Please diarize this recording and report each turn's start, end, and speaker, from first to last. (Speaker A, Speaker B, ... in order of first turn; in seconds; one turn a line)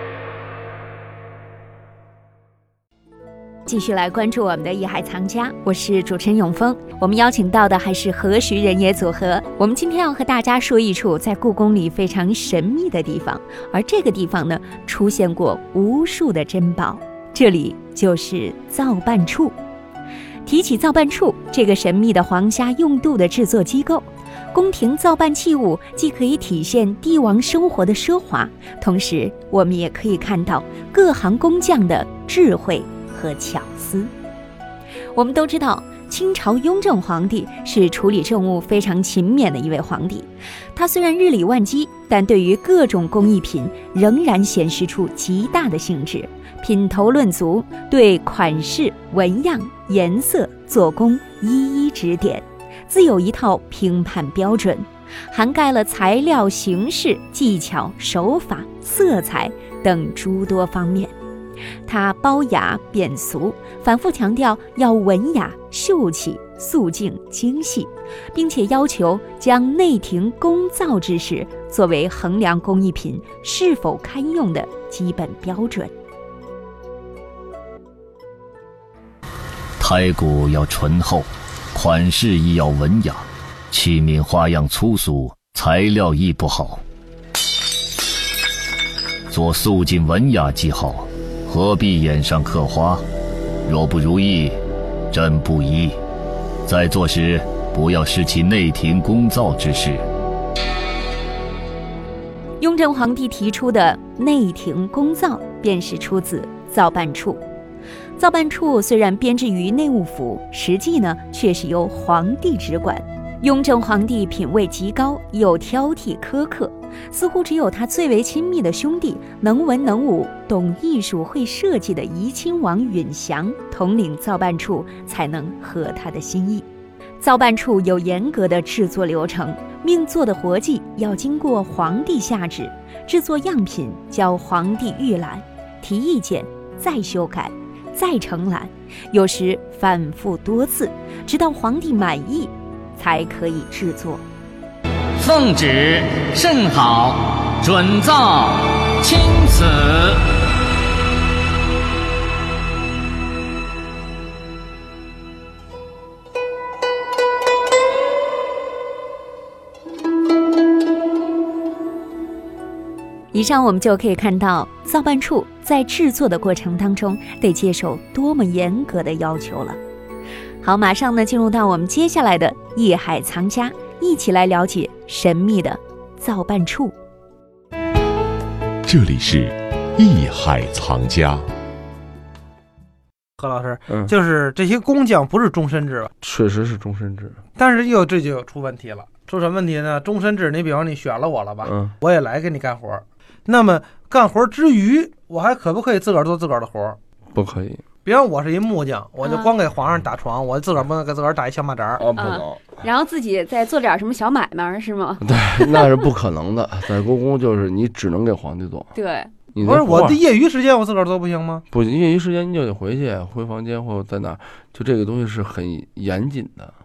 Speaker A: 3.6-19.6
Speaker A: 20.4-34.1
Speaker A: 35.1-61.1
Speaker A: 61.8-75.9
Speaker B: 79.8-86.8
Speaker B: 89.3-93.0
Speaker B: 93.6-94.6
Speaker B: 95.1-96.0
Speaker B: 96.6-100.0
Speaker A: 102.6-107.4
Speaker A: 108.2-126.7
Speaker A: 127.2-144.2
Speaker C: 145.2-150.2
Speaker A: 163.3-169.8
Speaker A: 170.6-176.9
Speaker D: 178.8-181.5
Speaker E: 183.4-186.1
Speaker F: 183.9-184.1
Speaker F: 186.2-187.4
Speaker E: 187.6-197.0
Speaker F: 191.6-191.9
Speaker F: 197.3-197.8
Speaker E: 198.0-202.0
Speaker G: 199.2-199.5
Speaker F: 202.0-202.8
Speaker G: 202.2-205.9
Speaker F: 205.2-208.9
Speaker G: 208.9-209.3
Speaker F: 209.5-210.2
Speaker E: 209.6-211.6
Speaker F: 211.7-216.7